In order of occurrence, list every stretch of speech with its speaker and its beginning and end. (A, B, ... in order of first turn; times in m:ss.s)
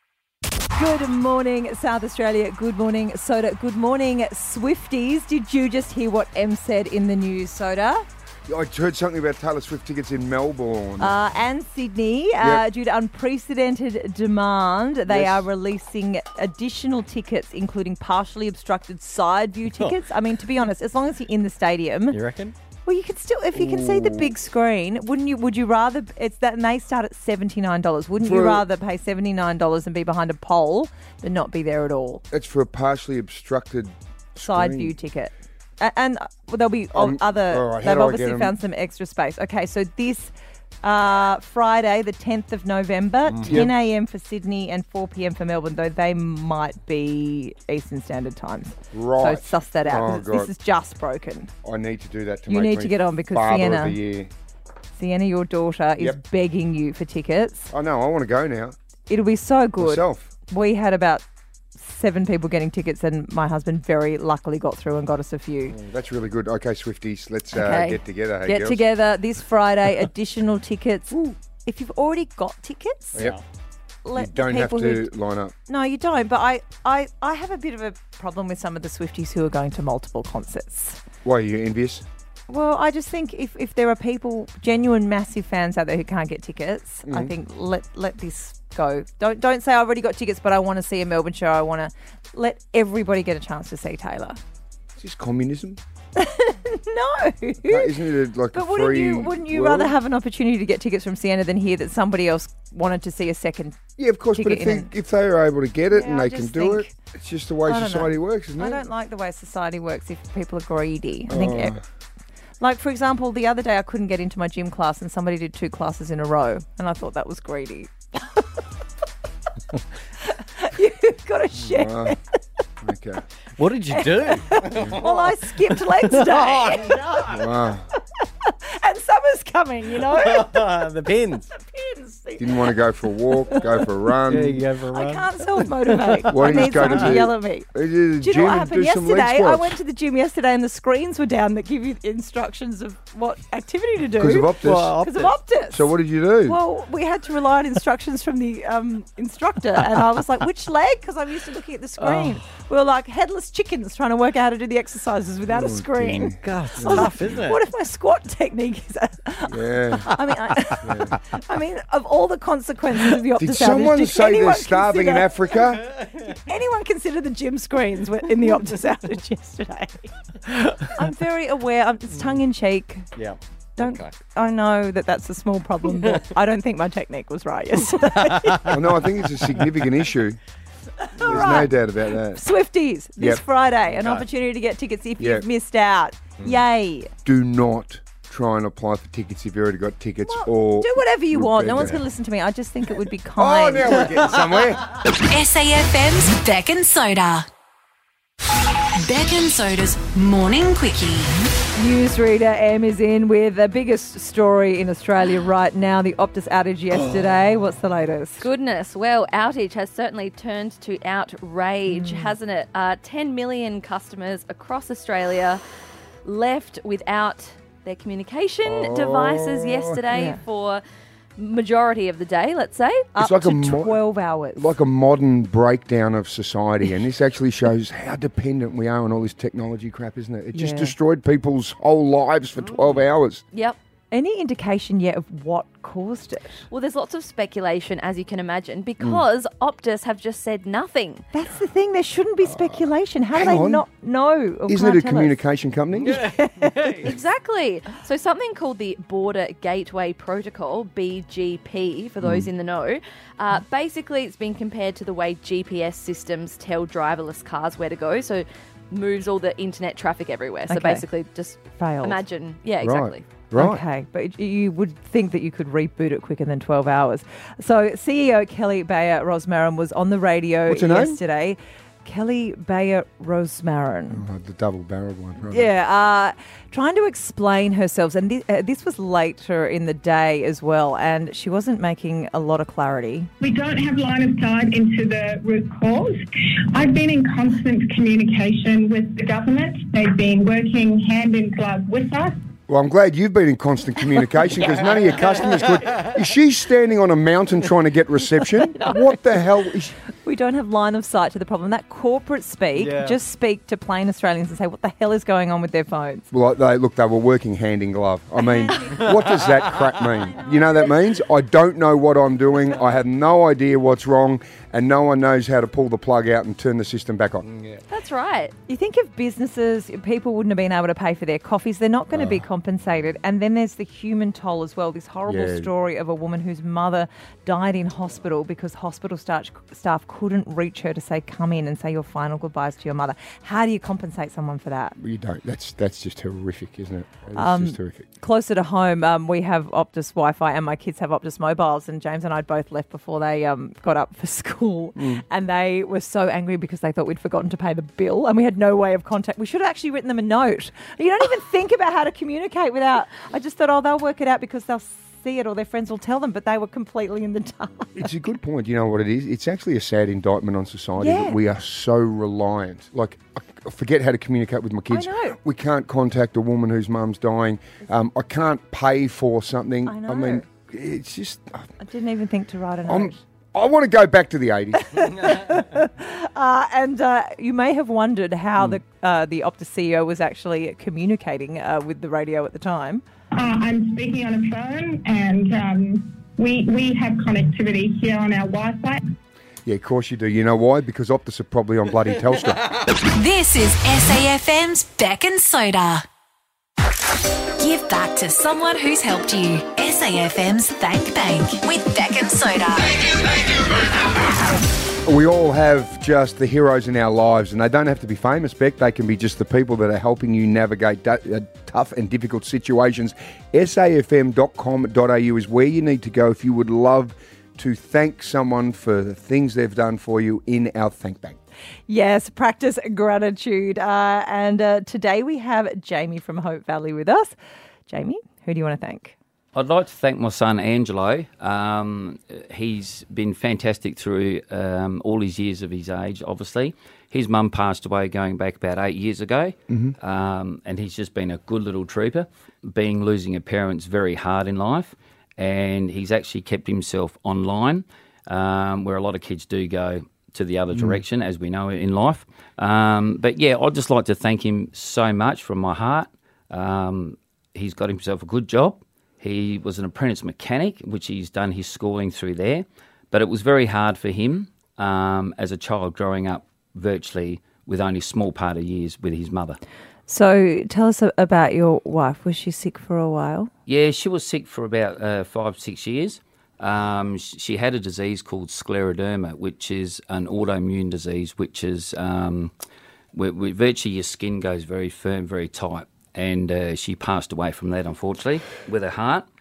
0:00.8-0:08.0 A
0:08.5-0:11.2 B
0:11.0-0:22.2 A
0:15.1-0:15.4 B
0:19.7-0:20.0 C
0:22.1-0:22.6 C
0:22.9-0:32.2 A
0:23.5-0:24.3 B
0:28.2-0:28.6 B
0:32.3-0:34.9 B
0:34.4-0:40.3 A
0:37.0-0:38.6 B
0:40.8-0:51.5 A
0:43.3-0:43.7 B
0:48.9-0:50.5 B
0:51.6-0:54.3 B
0:52.5-0:54.0 A
0:55.0-0:57.7 A
0:57.7-0:58.8 B
0:59.1-1:01.2 A
0:59.8-1:00.3 B
1:01.8-1:05.8 A
1:05.7-1:08.8 B
1:07.6-1:08.0 D
1:08.4-1:13.2 A
1:11.1-1:11.4 B
1:13.1-1:13.4 C
1:14.0-1:15.1 A
1:14.1-1:15.5 B
1:15.7-1:21.0 A
1:21.2-1:22.0 B
1:22.5-1:34.4 A
1:27.1-1:27.3 B
1:35.0-1:35.8 B
1:36.2-1:37.9 A
1:37.6-1:40.0 B
1:38.5-1:43.8 A
1:44.0-1:48.8 B
1:44.4-1:44.9 A
1:45.9-1:46.9 A
1:47.6-1:51.8 A
1:51.3-1:51.8 B
1:52.6-1:58.4 A
2:00.2-2:02.2 A
2:01.6-2:02.2 B
2:02.8-2:03.2 B
2:03.6-2:07.5 C
2:03.9-2:07.1 A
2:07.3-2:07.8 B
2:08.5-2:10.7 A
2:10.1-2:11.5 C
2:11.5-2:12.6 A
2:12.4-2:14.6 B
2:14.2-2:17.2 C
2:14.9-2:17.7 A
2:16.3-2:19.8 B
2:18.2-2:25.9 A
2:24.2-2:25.0 B
2:24.6-2:25.4 C
2:25.7-2:26.6 B
2:26.4-2:45.3 A
2:32.0-2:32.4 C
2:35.5-2:37.2 B
2:36.3-2:37.6 C
2:39.5-2:40.1 B
2:40.8-2:41.1 B
2:43.4-2:45.9 B
2:46.3-2:53.1 A
2:53.2-2:54.1 C
2:53.8-2:58.7 A
2:55.9-2:56.2 C
2:58.1-2:58.8 C
2:58.7-3:00.4 B
3:01.1-3:01.7 A
3:01.2-3:02.4 B
3:02.3-3:07.1 A
3:03.9-3:04.2 C
3:07.2-3:12.0 B
3:10.2-3:14.1 A
3:13.4-3:14.9 B
3:15.2-3:17.5 E
3:19.0-3:21.3 E
3:21.8-3:28.5 A
3:28.4-3:35.6 D
3:31.9-3:32.3 A
3:36.2-3:40.8 D
3:38.6-3:40.0 B
3:40.1-3:40.4 A
3:41.4-3:43.1 D
3:43.1-3:44.7 A
3:43.2-3:44.0 B
3:44.5-3:53.4 B
3:50.5-3:50.9 A
3:53.5-3:53.8 D
3:54.1-3:56.6 A
3:56.7-4:01.2 D
4:01.3-4:05.4 A
4:03.3-4:03.8 B
4:04.7-4:06.2 B
4:06.1-4:07.1 C
4:06.2-4:07.0 A
4:07.0-4:23.2 D
4:12.2-4:12.5 B
4:20.7-4:21.0 A
4:21.6-4:22.2 A
4:22.8-4:23.8 B
4:23.5-4:34.2 A
4:30.7-4:31.2 B
4:34.1-4:35.7 B
4:35.5-4:43.3 A
4:43.4-4:52.4 F
4:52.7-4:59.9 B
4:54.9-4:55.5 C
5:00.2-5:06.2 A
5:02.8-5:03.2 C
5:06.3-5:17.5 B
5:08.4-5:09.1 A
5:17.5-5:17.8 C
5:17.9-5:18.5 D
5:18.7-5:35.0 A
5:25.3-5:25.7 B
5:35.0-5:38.0 B
5:37.4-5:58.1 A
5:45.0-5:45.2 B
5:58.0-6:11.7 B
6:01.0-6:01.4 A
6:04.9-6:05.4 A
6:09.8-6:10.5 A
6:11.8-6:13.2 A
6:12.8-6:15.2 B
6:14.9-6:23.0 A
6:23.3-6:29.0 F
6:29.6-6:32.7 B
6:33.1-6:36.0 E
6:37.6-6:43.0 E
6:45.0-7:01.4 B
7:01.9-7:07.3 A
7:07.9-7:09.2 A
7:09.5-7:49.6 G
7:19.7-7:19.9 B
7:50.1-7:53.5 A
7:53.6-8:02.5 G
8:03.1-8:09.2 G